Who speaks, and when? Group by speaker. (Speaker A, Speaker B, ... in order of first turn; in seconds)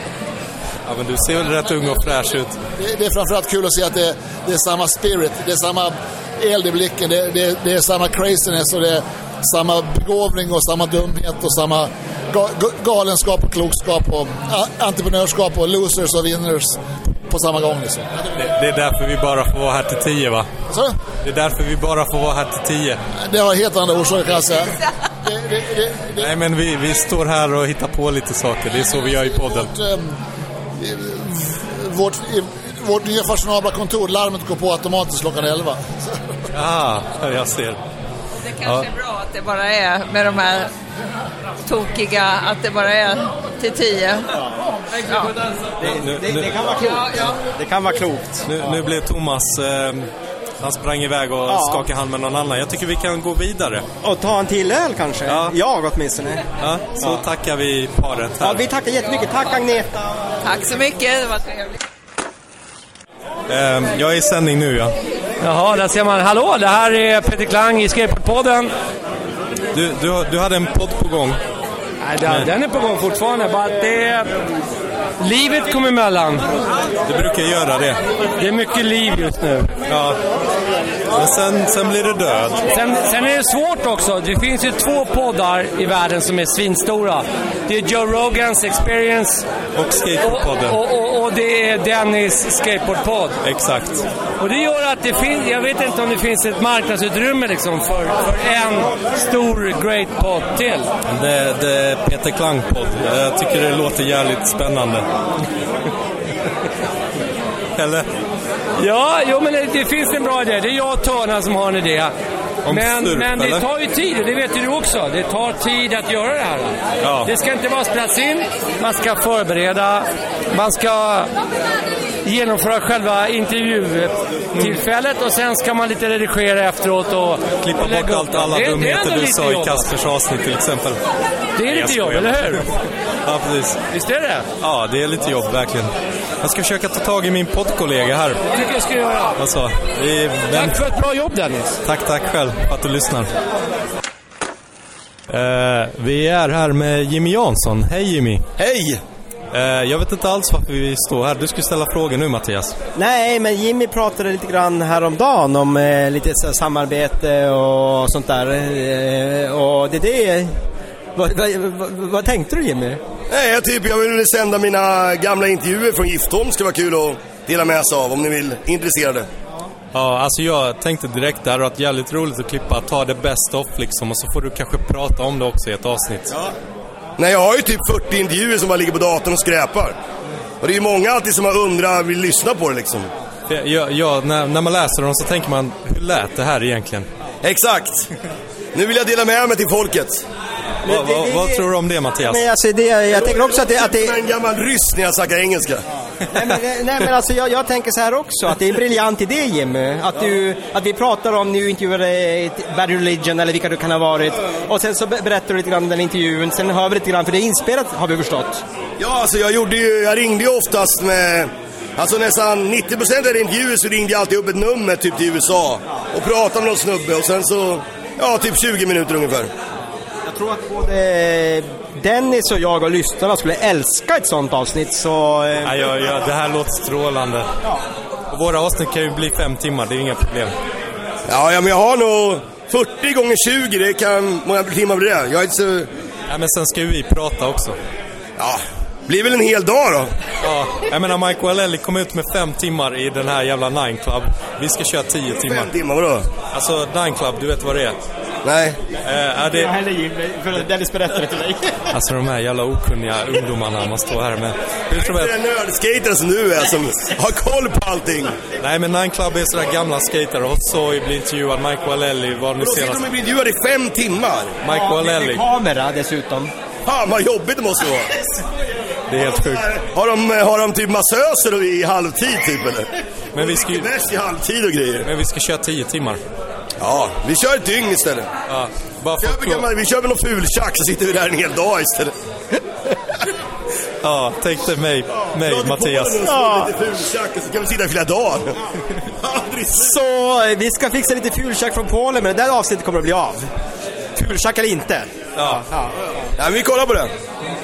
Speaker A: 0.9-2.6, 18.4-20.5, 21.2-23.0, 26.2-29.7, 36.5-37.8, 45.8-46.6, 48.5-50.1, 50.6-53.9, 55.3-55.5, 56.6-58.6, 63.5-64.9, 69.7-71.4, 77.1-78.0, 79.9-80.2, 81.1-82.7, 89.8-90.8, 93.4-94.1, 101.1-105.1, 107.8-108.1, 112.7-113.7, 117.0-117.3, 127.6-131.0, 131.7-132.7, 133.2-133.8, 134.6-138.4, 139.4-140.8, 141.8-143.3, 145.3-148.5, 149.5-152.8, 169.9-176.3, 183.5-187.1, 190.8-192.4, 225.7-227.5, 228.3-230.5, 236.3-237.8, 240.4-245.7, 246.5-248.0, 249.0-249.7, 251.9-255.3, 258.6-263.1, 264.6-265.4, 269.1-269.8, 273.3-273.9, 275.0-276.2, 278.5-279.7, 284.0-286.3, 295.4-295.6
Speaker B: 2.8-18.4, 20.7-21.0, 23.2-26.3, 29.0-30.2, 30.8-36.2
Speaker C: 38.4-40.7, 41.6-44.3, 45.0-45.3, 60.4-61.8
Speaker D: 45.8-48.8, 51.5-51.9, 54.0-56.5, 58.4-60.2, 153.0-160.6, 161.2-163.0, 190.8-191.7, 192.2-194.2, 196.3-208.6, 220.2-226.0, 249.5-251.8, 264.6-266.5, 286.2-286.7, 289.7-293.5, 294.2-295.9
Speaker E: 65.4-68.7, 72.1-74.3, 75.2-76.5, 78.4-79.7, 82.7-89.5, 90.2-93.4, 94.4-100.9, 108.8-112.1, 112.7-121.3, 122.2-129.9, 131.6-132.7, 133.9-134.5, 138.5-139.3, 140.5-141.8
Speaker F: 148.6-149.0, 163.3-169.3, 177.2-180.0, 180.6-183.1, 187.4-188.1, 188.7-190.2, 193.1-195.8, 209.0-219.5, 231.3-235.9, 238.4-240.1, 245.4-246.3, 248.4-248.8, 254.9-258.4, 262.6-264.6, 266.9-268.1, 269.2-275.1, 276.8-278.3, 279.2-282.1, 285.2-288.6, 289.2-289.9, 296.4-297.1